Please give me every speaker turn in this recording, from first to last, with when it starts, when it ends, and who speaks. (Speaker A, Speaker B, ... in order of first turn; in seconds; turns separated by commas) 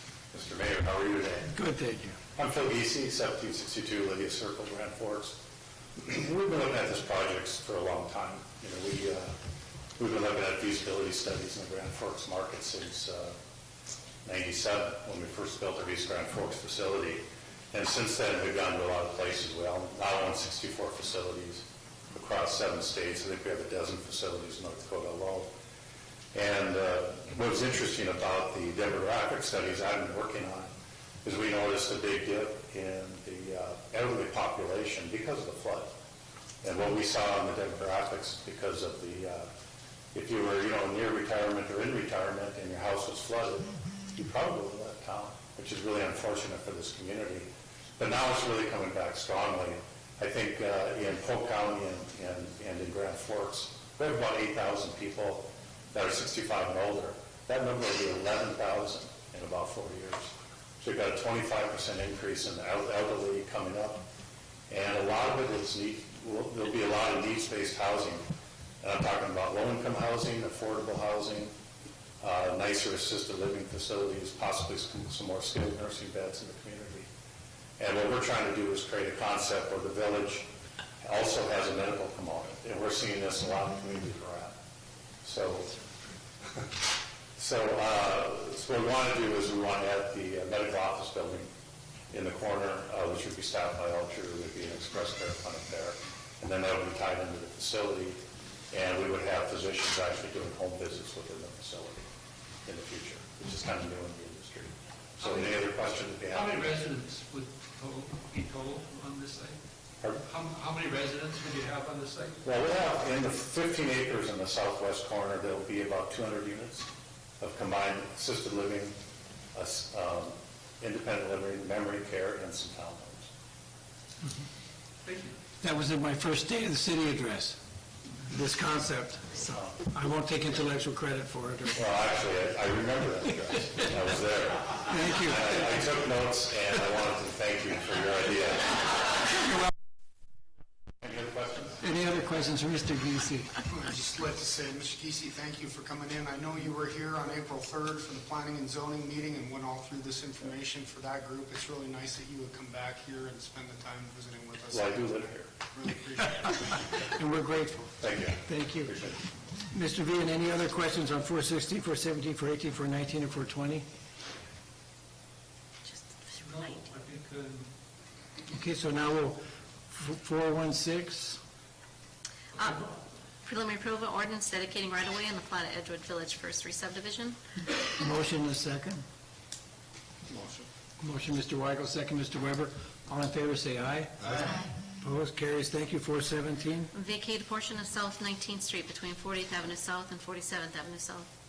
Speaker A: 0.3-1.6, Speaker B: 1.5-2.2, Speaker A: 2.4-5.4, Speaker A: 6.0-9.3, Speaker A: 10.0-13.4, Speaker A: 14.2-25.5, Speaker A: 26.3-35.9, Speaker A: 36.6-39.5, Speaker A: 40.1-64.0, Speaker A: 64.7-68.3, Speaker A: 68.8-71.5, Speaker A: 72.2-77.1, Speaker A: 77.8-80.5, Speaker A: 81.0-84.6, Speaker A: 85.2-85.8, Speaker A: 87.4-91.5, Speaker A: 92.1-98.2, Speaker A: 98.7-102.0, Speaker A: 102.7-106.7, Speaker C: 105.2-105.6, Speaker C: 106.3-109.6, Speaker C: 110.3-112.5, Speaker A: 112.4-116.9, Speaker A: 117.4-119.0, Speaker A: 119.5-123.3, Speaker C: 125.1-125.3, Speaker B: 125.6-127.6, Speaker B: 128.3-131.9, Speaker A: 131.8-139.0, Speaker B: 134.9-135.8, Speaker A: 141.0-141.8, Speaker B: 141.8-143.5, Speaker D: 143.7-156.8, Speaker A: 154.7-155.5, Speaker B: 157.1-158.9, Speaker A: 158.0-159.2, Speaker B: 159.7-163.9, Speaker E: 165.9-166.9, Speaker C: 166.4-167.7, Speaker B: 168.5-171.4, Speaker E: 172.6-177.4, Speaker B: 178.0-179.0, Speaker D: 180.3-180.7, Speaker B: 181.0-186.9, Speaker E: 186.9-191.3